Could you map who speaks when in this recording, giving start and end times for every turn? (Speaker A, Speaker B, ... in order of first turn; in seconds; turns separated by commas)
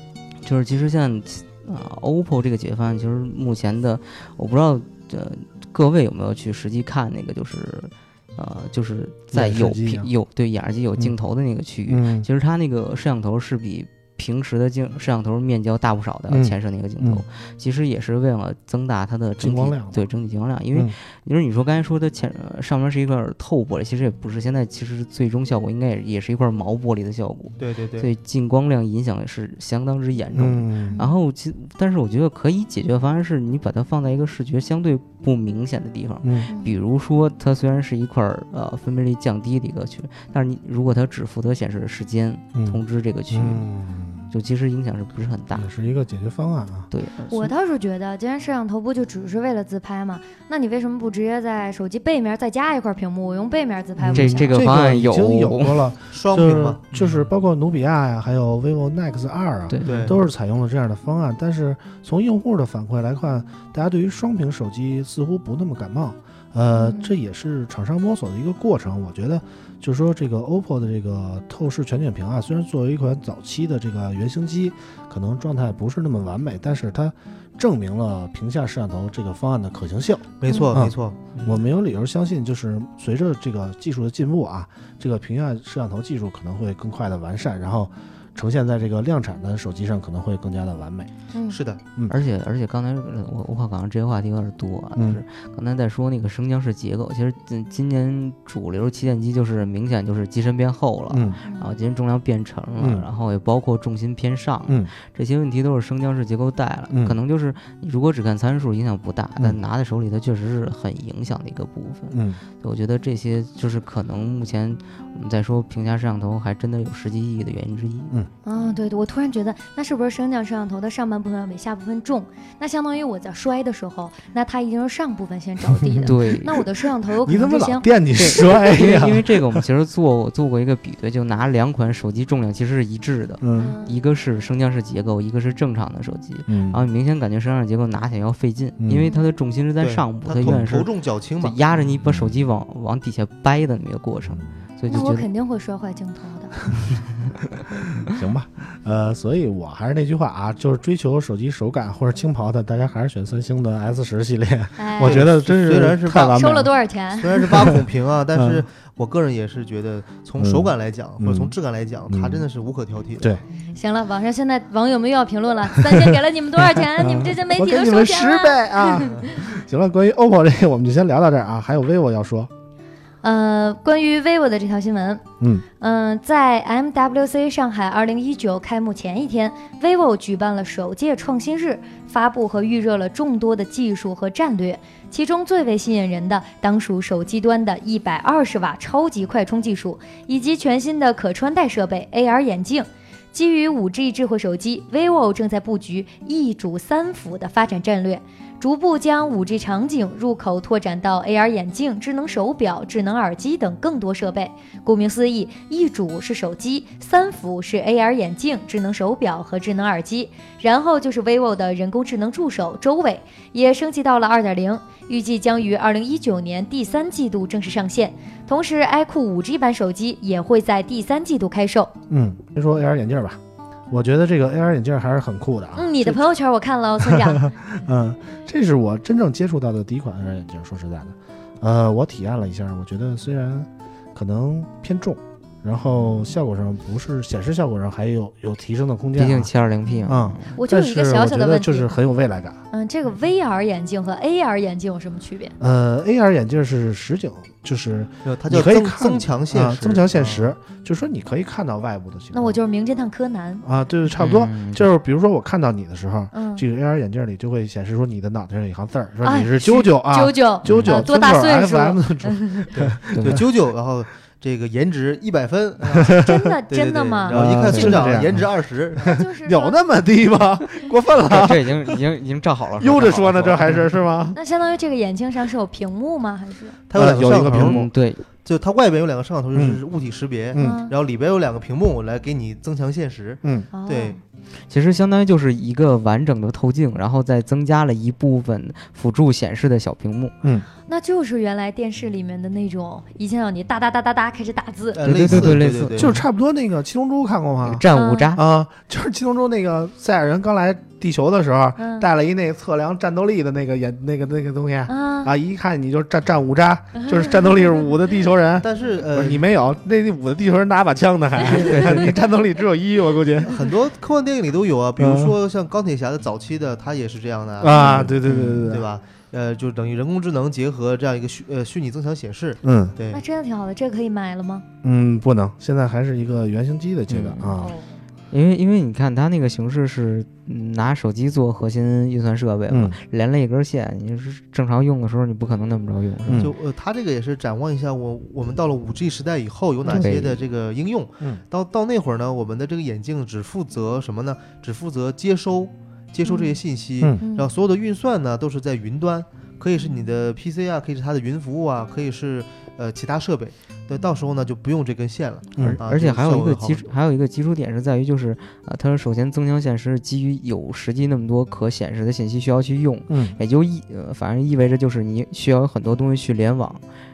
Speaker A: 0.4-43.7, Speaker B: 9.3-10.1, Speaker B: 11.9-12.3, Speaker B: 16.3-17.2, Speaker B: 19.4-20.1, Speaker C: 27.6-28.1, Speaker B: 30.3-31.0, Speaker B: 36.2-36.5, Speaker D: 36.5-36.7, Speaker B: 42.5-42.8, Speaker B: 43.3-44.3, Speaker A: 44.3-45.7, Speaker B: 45.5-46.9, Speaker A: 46.9-47.5, Speaker D: 47.3-54.5, Speaker B: 54.0-91.1, Speaker A: 54.1-55.9, Speaker C: 56.1-57.2, Speaker A: 59.7-60.2, Speaker C: 59.8-60.2, Speaker D: 66.7-67.1, Speaker C: 80.4-81.6, Speaker D: 91.3-91.6, Speaker C: 91.5-91.8, Speaker A: 92.1-118.2, Speaker B: 95.0-95.2, Speaker B: 101.1-101.4, Speaker D: 101.4-101.7, Speaker B: 102.8-103.0, Speaker B: 106.9-107.2, Speaker B: 112.1-112.4, Speaker D: 118.5-127.9, Speaker B: 125.7-126.1, Speaker A: 126.0-126.7, Speaker B: 127.3-129.6, Speaker A: 128.2-145.3, Speaker B: 133.4-133.8, Speaker D: 133.6-134.0, Speaker B: 136.5-136.8, Speaker B: 138.8-139.1, Speaker C: 139.8-141.6, Speaker B: 142.0-142.4, Speaker D: 144.9-146.6, Speaker B: 148.1-156.7, Speaker D: 154.8-155.3, Speaker C: 155.0-156.4, Speaker D: 156.1-157.6, Speaker C: 157.2-163.3, Speaker B: 157.5-157.8, Speaker B: 158.3-158.6, Speaker B: 160.4-161.5, Speaker B: 162.1-162.5, Speaker D: 163.6-169.5, Speaker B: 166.8-172.5, Speaker D: 173.2-175.2, Speaker B: 175.4-175.7, Speaker D: 175.8-221.9, Speaker B: 222.1-223.4, Speaker B: 223.9-226.2, Speaker D: 225.8-227.5, Speaker B: 227.0-239.5, Speaker A: 239.2-240.6, Speaker D: 239.9-241.9, Speaker B: 240.1-242.6, Speaker D: 242.7-245.5, Speaker B: 245.6-252.6, Speaker C: 248.2-250.5, Speaker D: 252.3-253.7, Speaker B: 253.6-263.5, Speaker A: 254.2-254.9, Speaker D: 256.3-256.6, Speaker D: 259.2-262.7, Speaker C: 262.7-269.2, Speaker A: 263.1-263.4, Speaker B: 265.9-266.4, Speaker D: 266.1-267.5, Speaker B: 267.3-268.4, Speaker A: 267.7-268.2, Speaker D: 269.0-269.8, Speaker B: 269.0-272.0, Speaker A: 271.2-273.9, Speaker B: 272.8-274.4, Speaker D: 274.3-276.8, Speaker C: 276.9-277.9, Speaker B: 276.9-277.9, Speaker A: 277.1-278.2, Speaker C: 278.4-284.2, Speaker B: 279.5-279.8, Speaker B: 280.5-280.8, Speaker D: 280.6-280.9, Speaker D: 283.7-284.2, Speaker A: 284.7-290.3, Speaker D: 290.9-295.0, Speaker C: 294.9-296.2, Speaker A: 295.0-296.2, Speaker B: 295.2-313.6, Speaker A: 297.6-298.4, Speaker D: 297.9-298.3, Speaker D: 301.8-302.1, Speaker D: 304.9-305.3, Speaker D: 307.0-307.6, Speaker C: 308.6-309.4, Speaker A: 311.5-312.2, Speaker D: 311.6-311.9, Speaker C: 313.5-323.2, Speaker B: 315.0-315.4, Speaker B: 317.6-318.9, Speaker D: 317.7-318.0, Speaker A: 318.2-318.7, Speaker B: 322.6-322.9, Speaker D: 323.1-324.6, Speaker B: 324.8-327.7, Speaker A: 327.1-327.6, Speaker D: 327.6-327.9, Speaker A: 328.3-336.5, Speaker B: 332.7-333.0, Speaker B: 336.3-336.5, Speaker C: 336.4-356.9, Speaker A: 339.9-340.4, Speaker D: 346.2-346.6, Speaker D: 347.2-347.5, Speaker A: 355.6-366.8, Speaker B: 363.1-363.4